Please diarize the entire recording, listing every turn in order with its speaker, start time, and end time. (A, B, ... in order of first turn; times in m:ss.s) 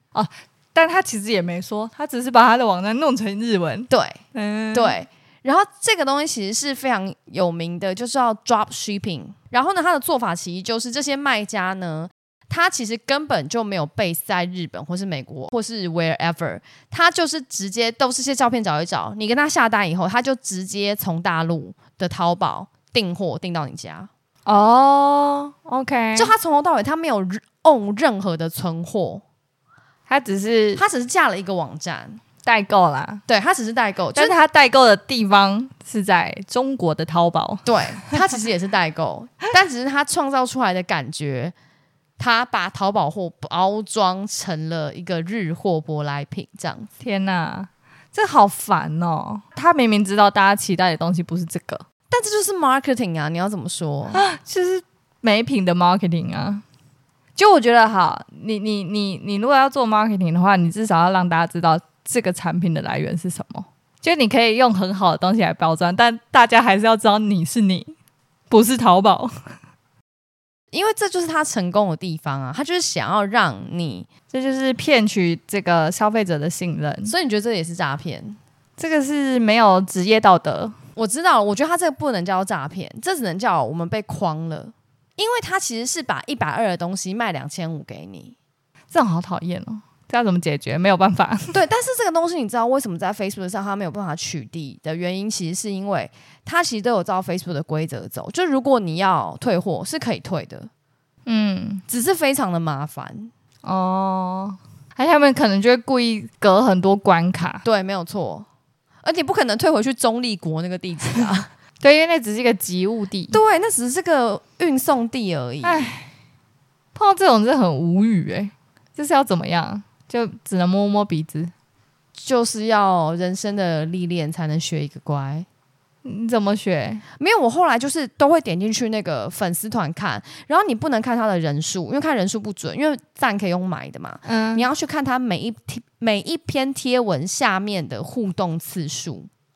0:00.1-0:04.9 A
0:03.9-0:04.2 B
0:04.7-0:24.1 B
0:24.4-0:26.3 A
0:26.1-0:29.2 B
0:30.1-0:30.8 A
0:30.8-0:32.2 B
0:32.4-0:33.2 A
0:33.3-0:34.4 B
0:34.1-0:38.2 A
0:37.6-0:41.5 B
0:42.2-0:46.9 B
0:47.0-0:51.8 A
0:52.1-0:54.2 B
0:54.1-0:56.6 A
0:57.4-1:07.9 A
1:08.5-1:09.3 A
1:10.7-1:14.1 B
1:14.3-1:17.1 A
1:17.0-1:18.4 B
1:18.8-1:20.7 A
1:21.0-1:28.3 B
1:28.9-1:31.5 A
1:31.5-1:40.7 B
1:41.2-1:41.8 A
1:41.9-1:43.3 B
1:43.6-1:47.6 A
1:47.6-1:48.5 B
1:49.0-1:51.5 B
1:51.8-1:53.4 A
1:53.3-1:55.9 B
1:55.6-1:56.1 A
1:56.9-2:01.5 A
2:02.2-2:05.5 B
2:06.0-2:07.0 A
2:07.2-2:19.3 B
2:14.2-2:14.6 A